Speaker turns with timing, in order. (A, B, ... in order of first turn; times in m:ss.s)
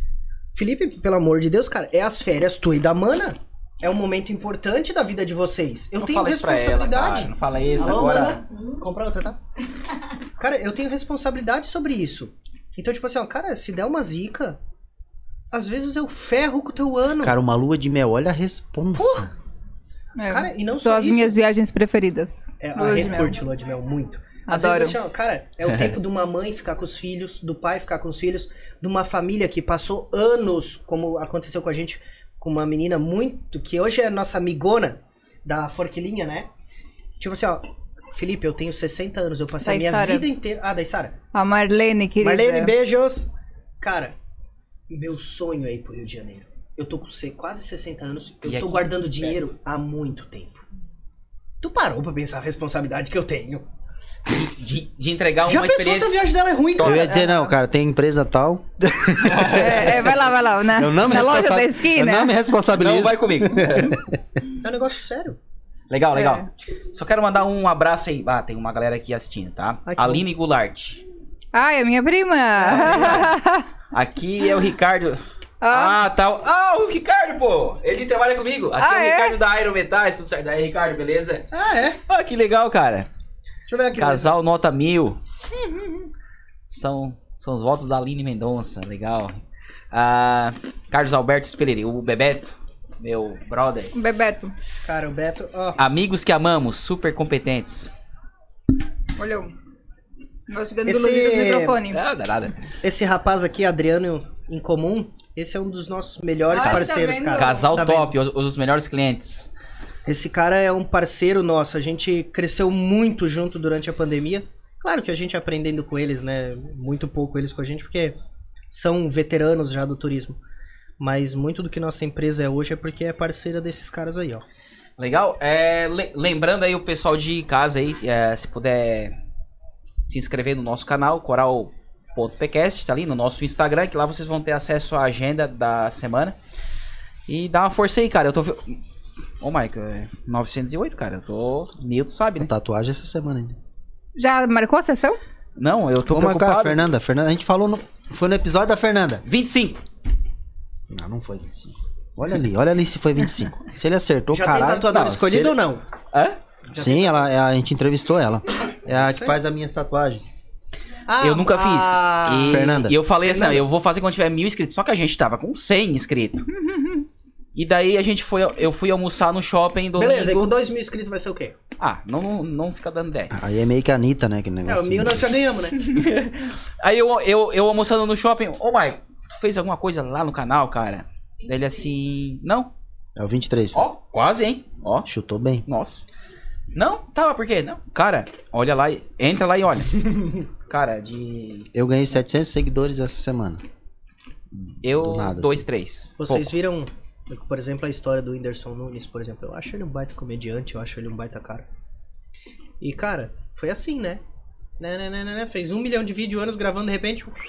0:00.5-0:09.4 A
0:06.0-0:08.4 B
0:10.4-0:14.6 A
0:15.5-0:17.4 A
0:17.2-0:19.3 C
0:19.0-0:19.3 A
0:20.2-0:23.4 D
0:20.3-0:21.4 A
0:22.6-0:36.5 A
0:24.5-0:25.0 D
0:37.2-0:41.2 A
0:39.6-0:40.3 D
0:41.3-0:42.7 D
0:42.2-0:44.2 A
0:44.9-0:50.6 A
0:48.4-0:49.4 B
0:51.6-0:53.6 A
0:54.3-0:56.2 B
0:55.5-0:57.5 A
0:56.8-0:57.2 B
0:56.8-1:04.1 C
0:59.2-1:00.1 B
0:59.5-1:02.3 D
1:02.8-1:04.0 B
1:04.6-1:05.4 A
1:05.9-1:11.0 B
1:06.2-1:06.5 D
1:09.9-1:10.2 A
1:11.5-1:13.7 D
1:12.6-1:13.2 A
1:12.7-1:13.3 B
1:13.9-1:21.5 B
1:15.6-1:16.0 D
1:18.8-1:19.4 D
1:21.5-1:22.0 A
1:22.1-1:23.1 B
1:23.7-1:24.4 A
1:24.0-1:25.2 B
1:26.7-1:29.4 B
1:29.9-1:33.9 B
1:33.9-1:34.5 D
1:34.8-1:35.8 A
1:35.8-1:37.9 B
1:39.2-1:39.5 D
1:40.5-1:42.0 D
1:40.9-1:41.8 A
1:41.9-1:42.6 B
1:42.8-1:48.1 A
1:46.5-1:47.7 D
1:46.6-1:49.5 B
1:50.1-1:58.2 A
1:58.7-2:00.4 A
2:01.0-2:04.4 A
2:05.0-2:09.2 B
2:10.1-2:16.4 B
2:17.3-2:18.8 B
2:19.4-2:22.5 B
2:22.4-2:23.6 C
2:24.2-2:25.2 D
2:25.6-2:26.8 B
2:26.1-2:29.2 C
2:29.3-2:29.8 B
2:30.9-2:34.9 C
2:34.3-2:35.8 A
2:34.9-2:35.6 B
2:36.1-2:36.4 B
2:36.7-2:37.3 A
2:36.7-2:40.3 C
2:38.9-2:39.4 A
2:41.1-2:42.7 A
2:41.2-2:46.5 B
2:42.4-2:43.0 C
2:43.2-2:43.6 A
2:47.6-2:50.5 B
2:50.0-2:51.6 A
2:51.8-2:53.3 B
2:53.3-2:55.3 C
2:54.6-2:55.9 A
2:55.8-3:02.7 B
3:03.2-3:03.8 C
3:03.8-3:05.1 B
3:05.1-3:05.6 C
3:05.7-3:06.1 B
3:06.7-3:10.1 B
3:10.7-3:11.7 B
3:11.7-3:13.6 C
3:14.8-3:16.5 B
3:14.9-3:15.6 C
3:16.2-3:21.7 A
3:22.8-3:24.2 A
3:24.8-3:27.4 A